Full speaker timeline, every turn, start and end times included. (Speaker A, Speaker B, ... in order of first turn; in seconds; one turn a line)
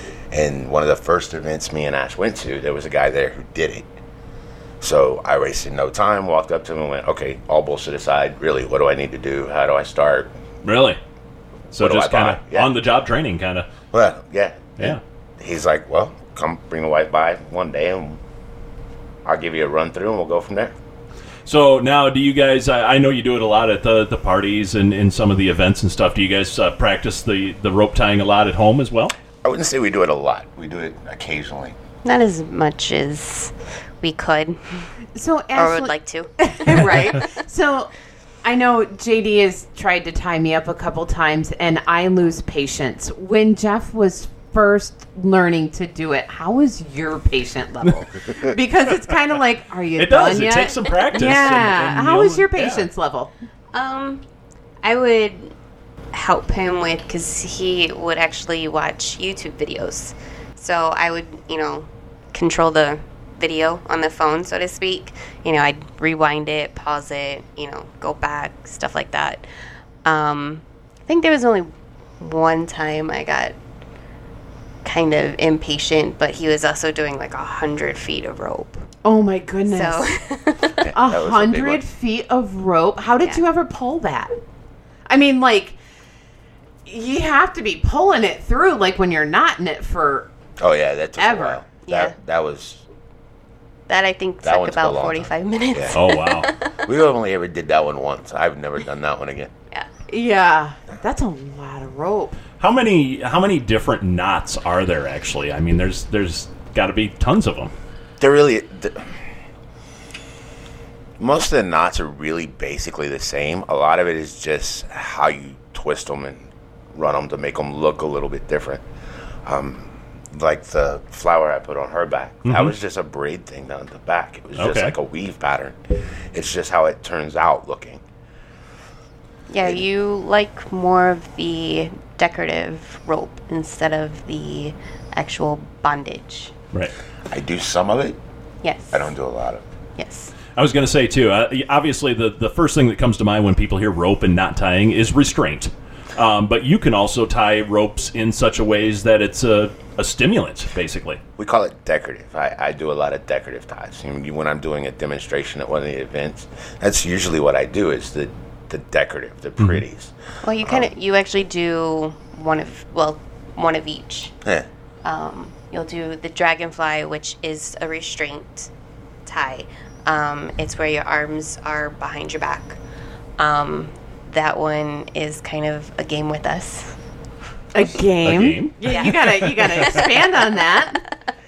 Speaker A: 0.3-3.9
Speaker A: 4.8-10.3
Speaker B: 10.6-11.0
Speaker B: 11.7-13.7
Speaker A: 11.8-12.7
Speaker A: 13.9-18.2
Speaker A: 19.2-20.7
Speaker B: 21.4-29.1
Speaker A: 29.4-31.8
Speaker C: 32.0-34.9
Speaker D: 35.1-37.9
Speaker C: 35.5-37.2
Speaker D: 38.4-53.3
Speaker B: 50.0-52.9
Speaker C: 53.7-54.2
Speaker C: 54.8-55.5
Speaker C: 56.1-69.5
Speaker C: 70.0-73.5
Speaker C: 74.8-78.8
Speaker D: 79.0-80.0
Speaker C: 79.7-80.9
Speaker A: 80.7-81.8
Speaker D: 80.9-84.3
Speaker D: 85.1-85.8
Speaker D: 86.8-90.3
Speaker A: 90.6-92.8
Speaker D: 91.2-91.6
Speaker C: 91.8-92.1
Speaker C: 93.9-96.7
Speaker A: 94.4-96.0
Speaker B: 95.9-96.5
Speaker A: 96.8-99.5
Speaker D: 100.1-102.3
Speaker B: 102.6-107.7
Speaker A: 108.2-109.2
Speaker A: 111.2-118.8
Speaker A: 119.4-128.0
Speaker B: 122.4-122.7
Speaker B: 124.5-124.9
Speaker C: 129.5-136.5
Speaker A: 137.3-138.2
Speaker C: 138.6-139.1
Speaker A: 138.9-139.6
Speaker C: 140.0-140.3
Speaker B: 140.6-151.2
Speaker A: 151.4-160.9
Speaker C: 160.4-164.3
Speaker C: 165.0-168.7
Speaker C: 169.2-172.8
Speaker C: 173.4-177.0
Speaker D: 177.7-181.0
Speaker B: 178.2-180.0
Speaker C: 178.8-179.2
Speaker C: 179.8-180.1